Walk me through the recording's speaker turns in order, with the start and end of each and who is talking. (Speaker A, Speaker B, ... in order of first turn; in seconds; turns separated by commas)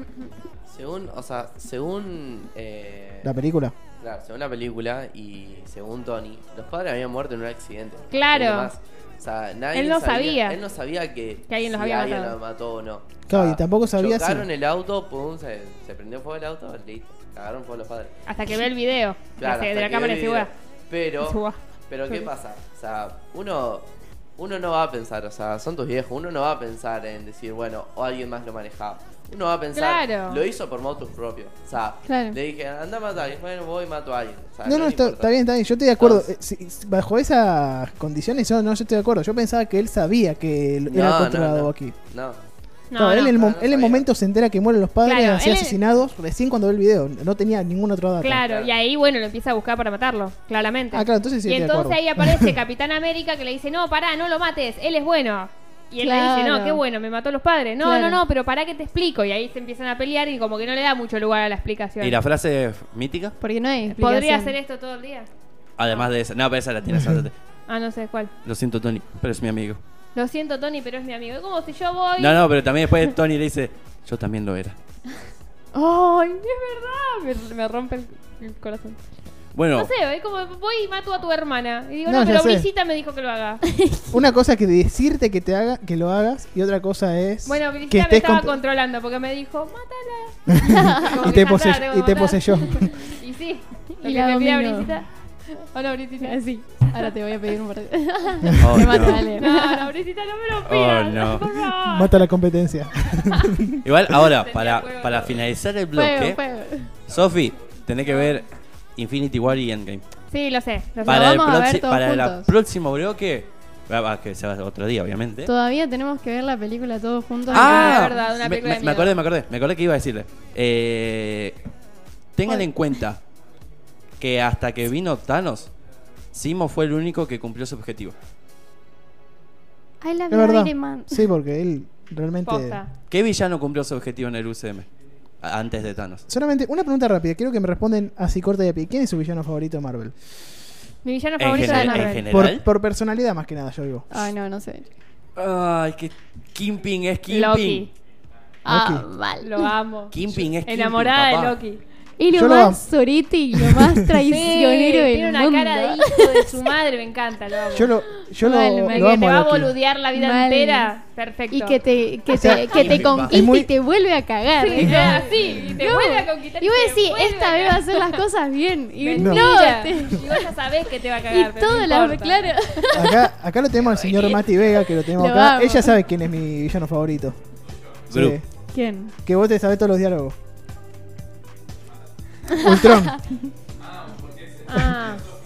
Speaker A: 0.7-3.3, Speaker B: 3.2-3.8, Speaker A: 4.0-18.1, Speaker C: 8.1-8.7, Speaker C: 9.7-10.6, Speaker C: 11.5-12.4, Speaker B: 13.3-14.5, Speaker C: 18.3-20.5, Speaker A: 19.4-35.4, Speaker C: 21.2-22.3, Speaker C: 29.7-30.4, Speaker D: 32.0-32.4, Speaker B: 34.6-42.0, Speaker A: 36.0-36.3, Speaker A: 40.9-42.4, Speaker C: 42.9-43.3, Speaker B: 43.0-48.4, Speaker A: 43.2-44.1, Speaker C: 45.0-45.8, Speaker C: 48.2-62.2, Speaker A: 48.4-48.7, Speaker B: 50.9-52.6, Speaker D: 56.0-56.8, Speaker D: 57.8-58.2, Speaker E: 62.0-63.4, Speaker D: 63.4-64.6, Speaker C: 63.9-65.3, Speaker E: 65.8-67.3, Speaker C: 67.7-68.3, Speaker E: 68.4-69.8, Speaker C: 70.2-72.4, Speaker E: 72.2-74.8, Speaker C: 75.7-79.1, Speaker E: 79.5-79.9, Speaker C: 79.7-83.6, Speaker B: 82.1-82.7, Speaker D: 83.7-84.2, Speaker B: 84.1-88.6, Speaker C: 87.5-96.4, Speaker B: 90.5-93.1, Speaker D: 94.0-94.9, Speaker D: 96.2-99.9, Speaker E: 98.6-99.3, Speaker C: 98.8-102.1, Speaker E: 100.6-101.6, Speaker B: 101.8-103.8, Speaker E: 103.8-106.4, Speaker C: 104.3-105.4, Speaker D: 105.9-106.9, Speaker E: 107.1-110.0, Speaker C: 108.1-108.4, Speaker C: 110.3-111.3, Speaker D: 111.0-112.5, Speaker E: 111.1-115.5, Speaker D: 115.5-118.2, Speaker E: 117.5-121.6, Speaker C: 117.5-119.1, Speaker E: 122.4-123.2, Speaker E: 124.2-125.7, Speaker E: 126.3-128.2, Speaker D: 130.0-131.3, Speaker B: 130.3-132.8, Speaker C: 132.4-132.9, Speaker E: 133.1-134.9, Speaker E: 135.4-136.2, Speaker B: 136.3-140.1, Speaker C: 141.0-142.2, Speaker E: 141.4-142.6, Speaker D: 141.6-142.2, Speaker B: 142.0-144.1, Speaker D: 144.1-144.9, Speaker E: 145.4-147.9, Speaker C: 147.3-147.9, Speaker D: 148.7-149.7, Speaker B: 148.7-149.1, Speaker C: 149.4-150.1, Speaker E: 150.1-151.6, Speaker C: 150.7-151.8, Speaker D: 152.2-156.6, Speaker B: 152.3-152.8, Speaker C: 154.2-161.8, Speaker B: 157.7-159.7, Speaker D: 160.1-160.9, Speaker D: 161.5-170.5, Speaker C: 162.3-163.2, Speaker B: 162.3-163.7, Speaker E: 162.6-163.4, Speaker C: 164.6-168.3, Speaker C: 169.0-172.6, Speaker B: 169.1-169.6, Speaker D: 171.3-173.3, Speaker B: 172.9-177.4, Speaker A: 173.8-174.4, Speaker D: 174.9-176.0, Speaker E: 178.1-178.4, Speaker B: 178.1-178.5, Speaker D: 178.7-179.1, Speaker B: 179.2-180.3, Speaker B: 182.5-183.2, Speaker D: 182.7-183.1, Speaker C: 184.7-185.2